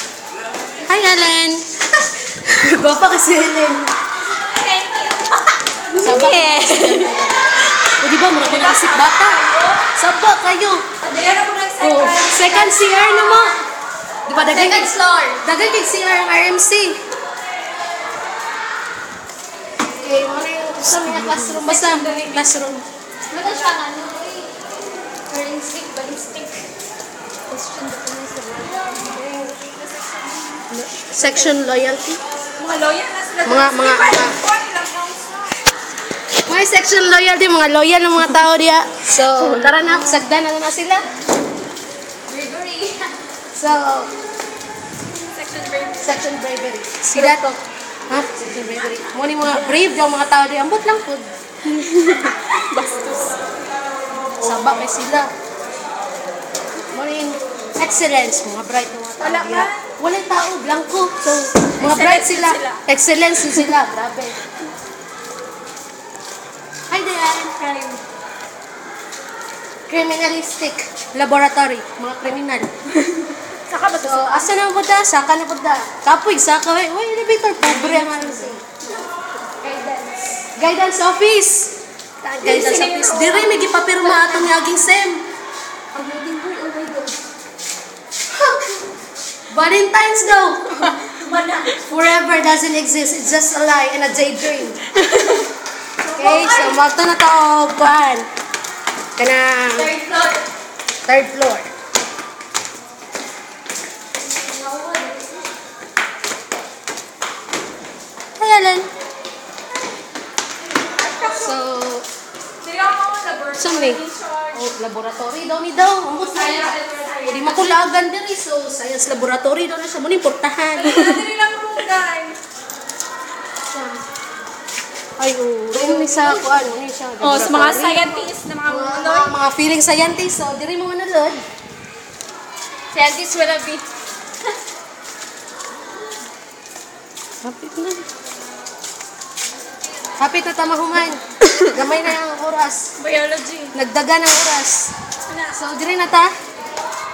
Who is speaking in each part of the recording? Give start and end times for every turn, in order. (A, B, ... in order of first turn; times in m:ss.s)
0:00.8-0:03.9 A
0:04.2-0:07.2 B
0:05.9-0:10.8 A
0:08.3-0:09.9 B
0:11.0-0:13.6 B
0:11.8-0:13.6 A
0:14.3-0:17.0 A
0:14.3-0:15.4 B
0:19.8-0:22.8 A
0:21.3-0:22.5 B
0:23.3-0:26.6 B
0:27.5-0:31.6 B
0:29.0-0:29.5 A
0:30.7-0:32.2 A
0:32.5-0:35.8 B
0:33.4-0:34.4 A
0:36.4-0:41.1 A
0:42.3-0:43.2 B
0:43.5-0:44.1 A
0:45.2-0:46.2 B
0:46.0-0:52.1 A
0:47.1-0:47.5 B
0:51.7-0:53.4 B
0:54.4-0:55.3 A
0:56.9-1:04.4 A
0:59.2-0:59.9 B
1:01.7-1:02.8 B
1:06.9-1:08.0 A
1:09.9-1:12.7 A
1:13.1-1:14.5 B
1:14.0-1:18.6 A
1:17.6-1:20.5 B
1:20.6-1:25.2 A
1:22.4-1:24.6 B
1:25.9-1:27.2 B
1:28.3-1:28.7 A
1:29.5-1:30.9 A
1:30.7-1:32.0 B
1:31.7-1:34.9 A
1:34.9-1:35.5 B
1:36.0-1:36.8 B
1:36.2-1:38.3 A
1:39.2-1:39.9 A
1:39.7-1:40.4 B
1:41.0-1:41.7 A
1:44.2-1:45.5 B
1:48.4-1:48.9 A
1:50.6-1:51.6 B
1:51.2-1:52.1 A
1:52.6-1:54.7 B
1:53.5-2:01.2 A
1:56.2-1:57.8 B
2:00.7-2:02.4 B
2:03.7-2:04.0 A
2:05.2-2:11.4 A
2:05.7-2:06.7 B
2:07.2-2:09.4 B
2:12.9-2:13.8 B
2:17.4-2:18.0 A
2:20.2-2:22.9 A
2:23.0-2:23.8 B
2:23.7-2:24.9 A
2:25.2-2:25.6 B
2:25.5-2:26.3 A